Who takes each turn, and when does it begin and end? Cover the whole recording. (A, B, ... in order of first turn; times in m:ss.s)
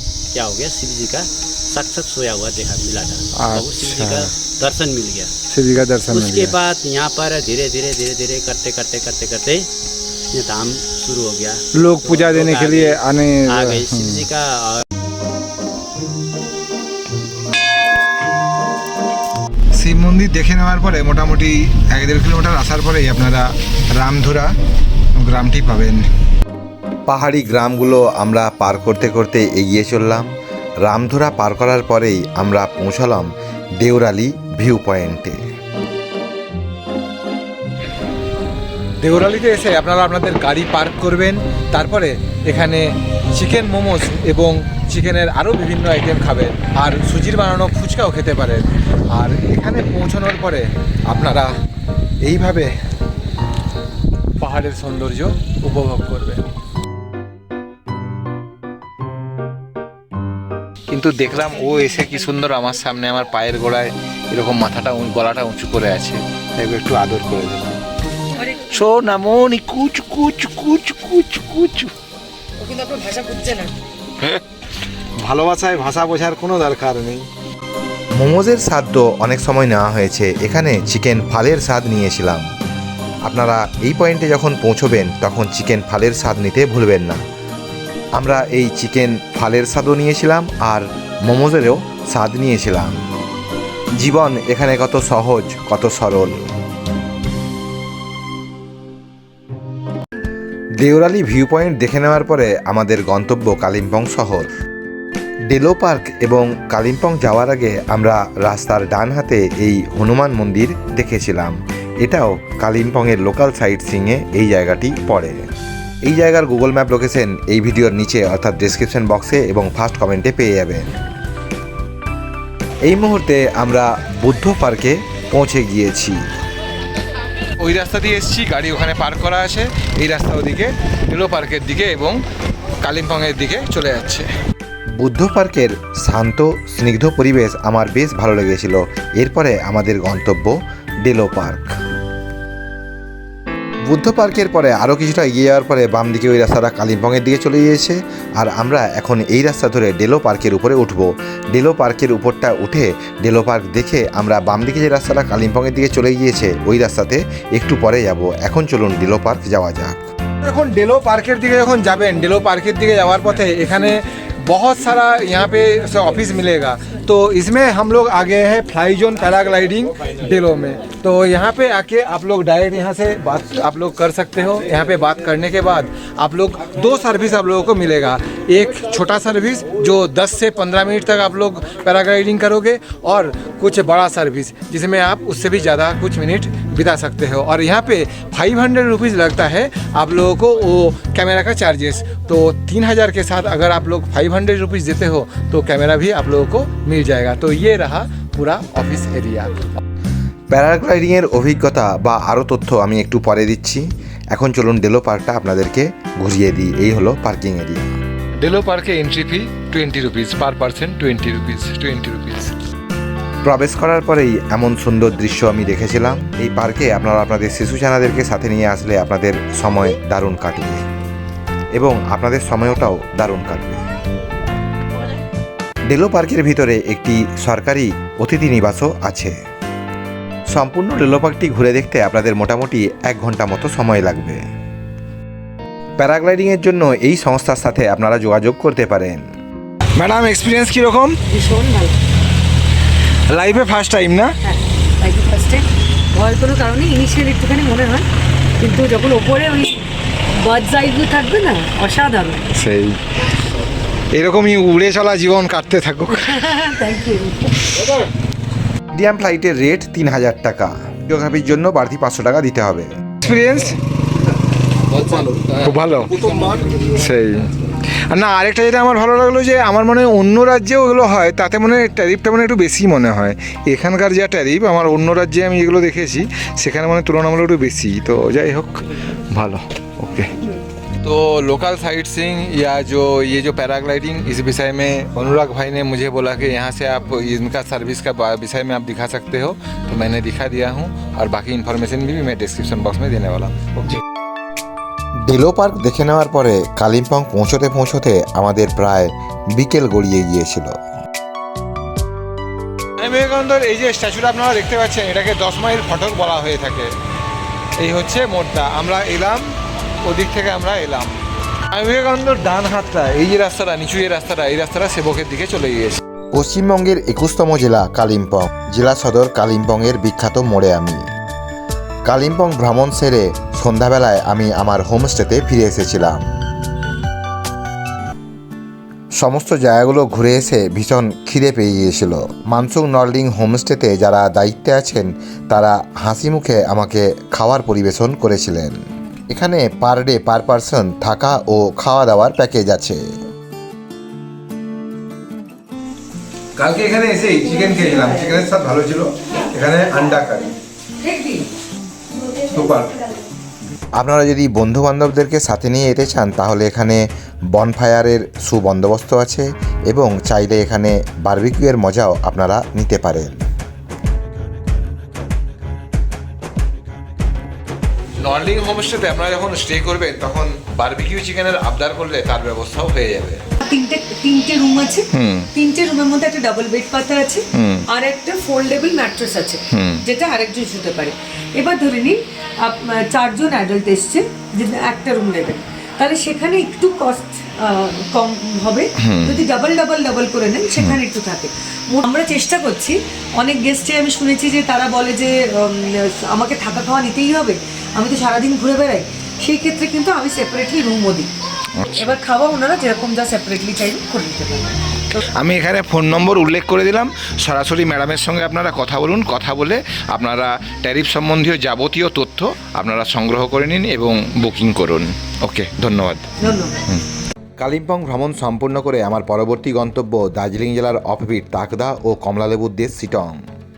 0:00.3-0:05.3 A
0:03.4-0:04.3 B
0:05.5-0:06.5 B
0:06.1-0:09.7 A
0:10.3-0:14.8 A
0:11.8-0:14.2 B
0:19.7-0:24.5 B
0:25.1-0:26.1 B
0:27.1-0:30.3 C
0:30.8-0:35.4 C
0:39.0-0:51.6 B
0:52.2-0:52.7 B
0:54.4-0:56.4 B
1:00.9-1:07.8 B
1:08.4-1:08.7 D
1:08.7-1:11.9 B
1:12.6-1:13.7 D
1:15.2-1:17.2 B
1:18.1-1:22.4 C
1:23.2-1:27.2 C
1:28.1-1:33.0 C
1:34.0-1:36.4 C
1:40.8-1:44.5 C
1:45.5-1:55.4 C
1:56.0-2:00.9 C
2:02.8-2:06.2 C
2:07.6-2:12.2 B
2:12.8-2:14.3 B
2:14.9-2:21.7 C
2:23.8-2:40.0 C
2:40.4-3:19.8 B
3:20.5-3:27.9 C
3:28.4-3:32.5 B
3:33.4-3:40.8 C
3:41.7-3:43.8 C
3:45.9-3:49.4 C
3:50.5-3:54.4 C
3:56.0-3:59.2 C
3:59.9-4:01.2 B
4:01.3-4:02.0 D
4:03.3-4:04.3 B
4:04.4-4:08.1 D
4:08.6-4:09.8 D
4:10.4-4:12.4 D
4:12.5-4:13.0 B
4:14.1-4:16.4 B
4:16.1-4:17.6 D
4:18.9-4:23.0 C
4:23.2-4:23.8 B
4:24.9-4:40.3 B
4:41.0-4:54.0 B
4:55.2-5:00.8 C
5:03.0-5:06.9 B
5:07.8-5:09.5 B
5:10.0-5:11.2 B
5:11.7-5:16.0 B
5:16.3-5:21.0 C
5:22.0-5:26.2 C
5:29.1-5:43.0 C
5:46.6-5:50.5 B
5:51.0-5:51.5 D
5:52.5-5:52.9 B
5:54.0-6:03.4 C
6:08.2-6:13.3 B
6:13.6-6:41.3 D
6:15.1-6:15.5 B
6:17.5-6:17.8 B
6:19.7-6:20.0 B
6:29.0-6:29.3 B
6:41.8-6:42.0 B
6:41.8-6:45.2 D
6:45.2-6:56.3 B
6:56.4-6:56.8 D
6:57.6-7:03.4 C